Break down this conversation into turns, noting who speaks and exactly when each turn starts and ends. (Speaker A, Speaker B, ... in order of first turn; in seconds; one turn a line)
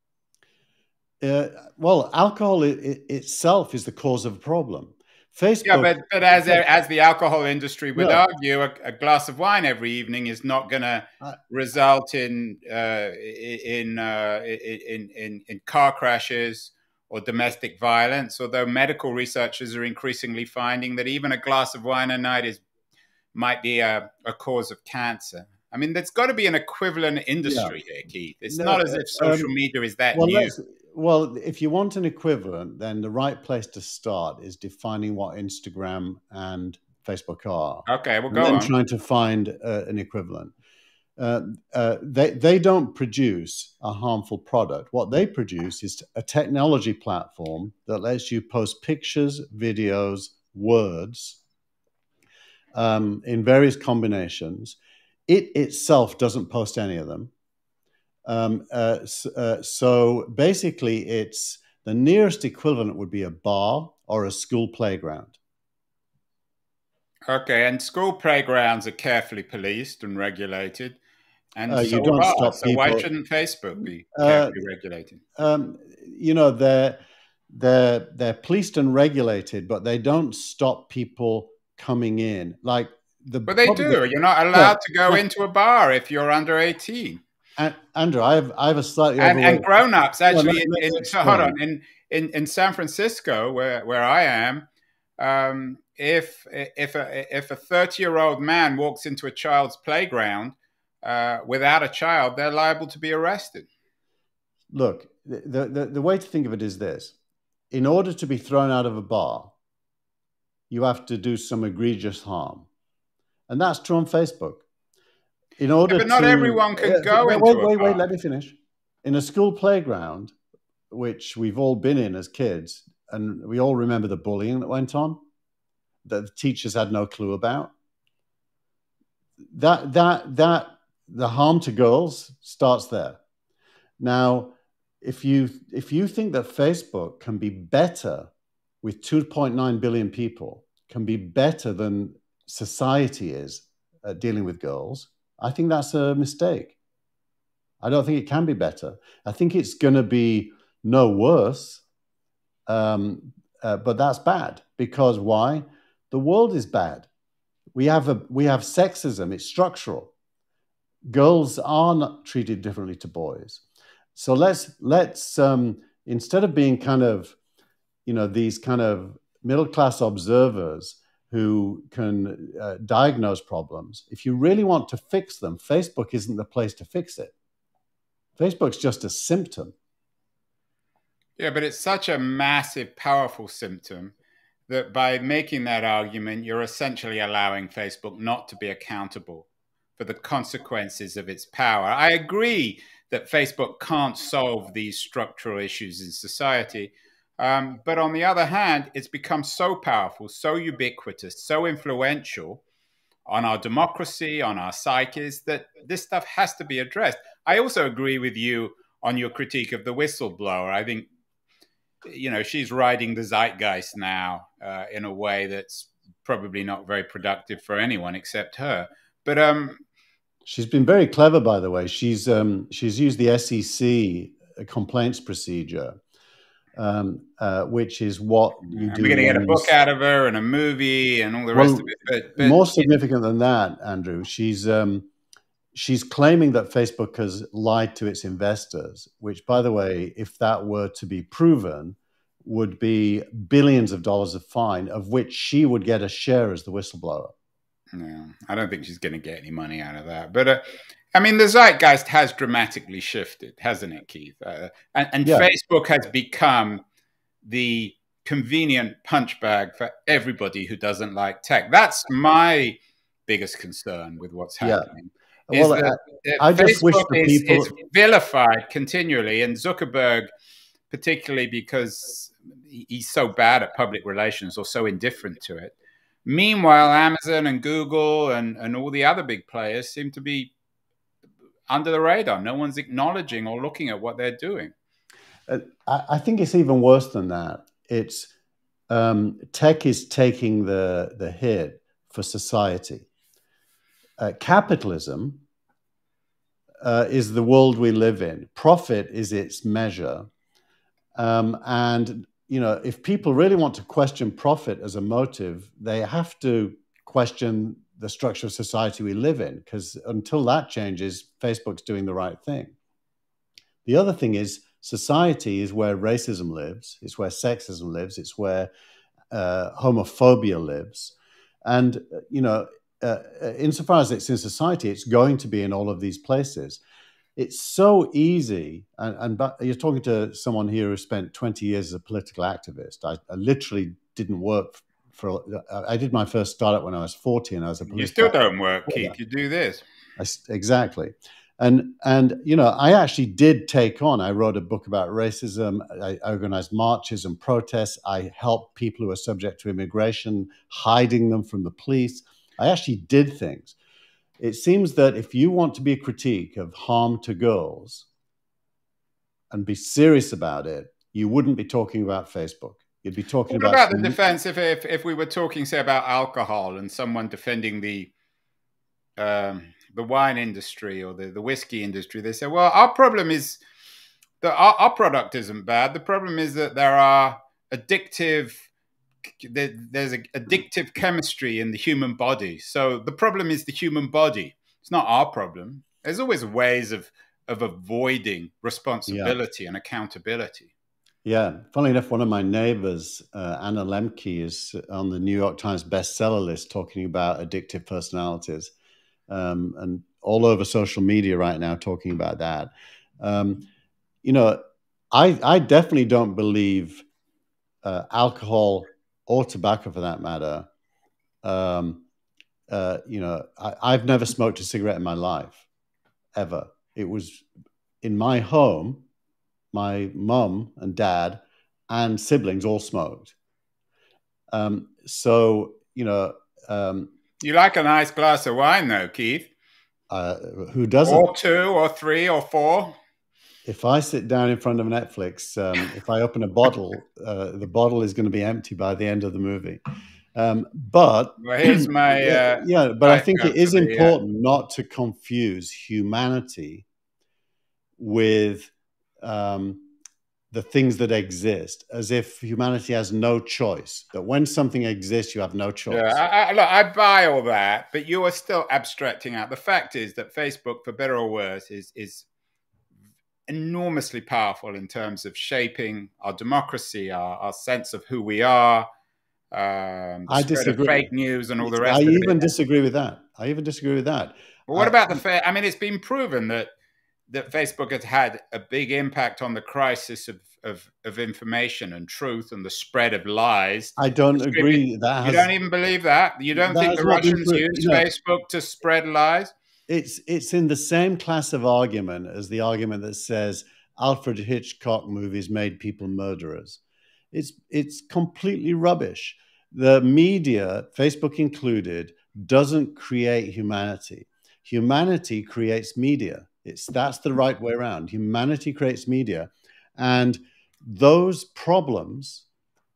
Speaker A: 1.2-6.6
Speaker B: 5.7-22.6
Speaker A: 8.0-8.2
Speaker B: 23.3-30.5
Speaker A: 27.4-27.8
Speaker A: 28.5-29.5
Speaker A: 30.1-40.5
Speaker B: 37.9-38.7
Speaker A: 41.2-51.4
Speaker A: 52.7-57.3
Speaker A: 58.2-65.4
Speaker B: 67.3-71.0
Speaker B: 71.6-75.2
Speaker A: 71.7-73.1
Speaker A: 74.2-74.6
Speaker A: 75.4-84.0
Speaker B: 83.5-87.2
Speaker A: 84.5-85.2
Speaker A: 87.6-91.5
Speaker B: 89.2-94.7
Speaker B: 95.2-103.7
Speaker A: 104.7-107.2
Speaker A: 107.7-109.5
Speaker A: 110.7-112.7
Speaker A: 113.5-114.7
Speaker A: 115.6-120.3
Speaker B: 115.9-118.0
Speaker A: 120.9-125.2
Speaker A: 126.0-127.7
Speaker A: 129.5-133.2
Speaker A: 134.0-138.3
Speaker A: 138.8-146.8
Speaker A: 147.8-151.8
Speaker A: 152.7-157.1
Speaker A: 157.8-160.1
Speaker A: 161.1-163.6
Speaker A: 164.2-167.4
Speaker A: 168.1-177.3
Speaker A: 178.4-179.7
Speaker B: 181.4-184.1
Speaker B: 184.7-202.6
Speaker B: 203.3-211.1
Speaker B: 212.1-219.8
Speaker A: 220.4-226.0
Speaker A: 226.8-229.7
Speaker B: 228.8-232.9
Speaker A: 231.5-235.1
Speaker A: 235.7-247.3
Speaker B: 247.9-256.8
Speaker A: 255.2-255.5
Speaker B: 257.4-270.3
Speaker A: 264.6-264.9
Speaker A: 265.5-267.7
Speaker B: 270.9-275.8
Speaker B: 276.3-280.5
Speaker B: 281.7-284.7
Speaker A: 285.5-288.3
Speaker A: 288.9-293.1
Speaker A: 294.2-295.4
Speaker A: 296.8-300.3
Speaker A: 301.1-312.7
Speaker A: 313.8-318.7
Speaker A: 319.3-326.8
Speaker A: 327.4-339.1
Speaker B: 337.9-339.8
Speaker A: 340.2-353.8
Speaker A: 354.4-358.1
Speaker A: 359.5-364.2
Speaker B: 363.5-368.1
Speaker B: 369.2-373.6
Speaker B: 374.4-378.6
Speaker B: 379.4-390.7
Speaker A: 389.1-389.3
Speaker A: 391.2-398.7
Speaker A: 399.3-403.7
Speaker A: 404.2-404.6
Speaker A: 405.1-407.1
Speaker A: 407.8-410.7
Speaker A: 411.4-412.0
Speaker A: 412.7-415.6
Speaker A: 416.3-417.4
Speaker A: 418.0-419.0
Speaker A: 419.7-423.3
Speaker A: 424.5-427.1
Speaker B: 427.4-429.5
Speaker A: 430.1-431.3
Speaker B: 431.1-432.9
Speaker A: 433.6-439.8
Speaker A: 440.3-446.8
Speaker B: 441.4-444.1
Speaker A: 448.0-449.9
Speaker A: 450.5-456.2
Speaker B: 455.9-462.3
Speaker B: 463.5-468.9
Speaker B: 469.5-472.5
Speaker A: 470.3-471.1
Speaker A: 471.6-475.2
Speaker B: 474.7-476.7
Speaker B: 477.3-489.5
Speaker A: 484.0-485.5
Speaker A: 486.6-488.1
Speaker A: 489.9-496.8
Speaker A: 497.3-512.4